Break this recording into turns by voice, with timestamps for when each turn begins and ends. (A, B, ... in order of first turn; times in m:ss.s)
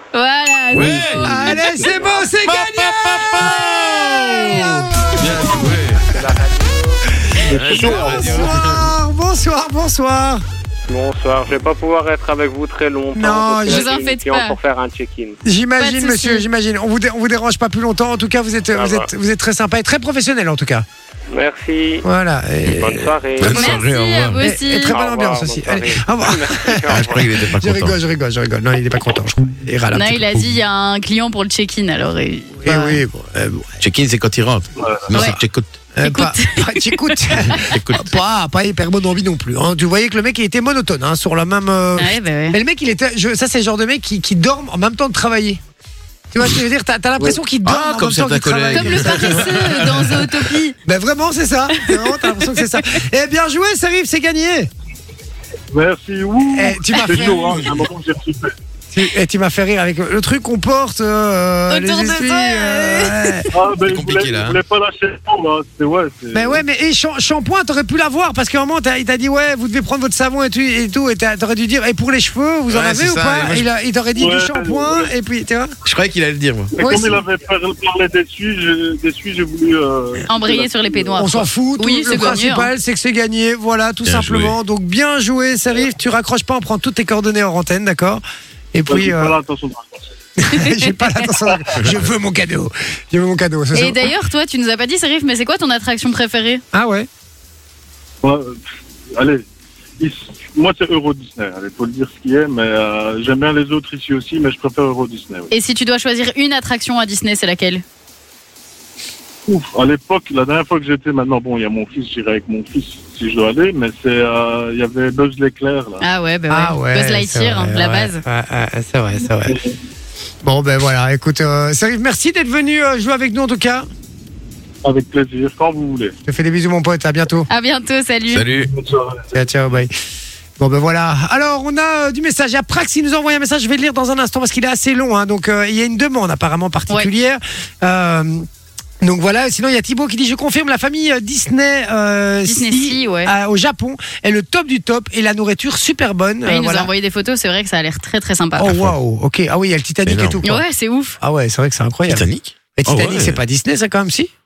0:00.1-0:01.7 A
0:00.7-0:01.5 B
0:00.9-0:05.8 C
0:02.3-0:06.0 B
0:06.0-0:07.1 D
0:07.4-0:10.4 C
0:07.4-0:08.6 E
0:07.5-0:09.0 B
0:10.9-0:15.4 D
0:13.2-0:13.9 C
0:13.7-0:14.6 A
0:15.4-0:20.9 C
0:15.8-0:16.4 A
0:18.7-0:19.1 D
0:21.3-0:22.1 D
0:22.0-0:23.1 C
0:22.6-0:23.8 D
0:23.4-0:24.5 B
0:23.4-0:24.9 A
0:24.4-0:30.5 C
0:24.8-0:27.2 D
0:26.9-0:28.0 B
0:29.9-0:33.0 A
0:32.6-0:33.7 C
0:33.8-0:35.7 B
0:34.8-0:35.1 E
0:36.0-0:45.6 C
0:36.0-0:37.6 A
0:37.4-0:38.1 B
0:42.0-0:42.6 A
0:46.3-0:50.2 C
0:47.6-0:49.7 B
0:48.7-0:50.8 A
0:50.8-0:54.7 C
0:51.7-0:53.0 A
0:55.7-0:58.5 E
0:56.5-0:57.8 C
0:56.9-0:57.2 A
0:58.9-1:03.4 C
1:01.7-1:03.5 A
1:03.5-1:06.6 E
1:03.9-1:04.6 B
1:06.3-1:15.7 C
1:12.7-1:13.7 B
1:14.2-1:15.1 E
1:15.8-1:16.7 B
1:16.7-1:21.3 E
1:16.8-1:17.2 C
1:20.3-1:22.7 A
1:21.2-1:28.2 C
1:24.0-1:24.6 B
1:28.7-1:29.4 C
1:28.9-1:30.0 E
1:30.4-1:34.1 C
1:30.5-1:31.3 A
1:33.7-1:36.6 A
1:36.7-1:37.1 C
1:38.2-1:39.4 E
1:40.0-1:45.5 E
1:45.5-1:47.8 A
1:49.5-1:56.0 E
1:56.0-1:58.2 A
1:56.5-1:59.6 C
1:59.5-1:59.8 E
2:00.4-2:03.9 C
2:04.8-2:06.2 E
2:06.3-2:07.5 C
2:07.5-2:08.5 A
2:08.3-2:08.7 B
2:08.5-2:09.3 E
2:09.3-2:09.9 C
2:10.6-2:18.5 C
2:19.0-2:26.9 C
2:22.5-2:23.3 A
2:26.5-2:28.7 A
2:28.6-2:30.6 C
2:30.0-2:30.4 B
2:30.4-2:31.2 A
2:31.2-2:34.3 C
2:32.1-2:33.4 B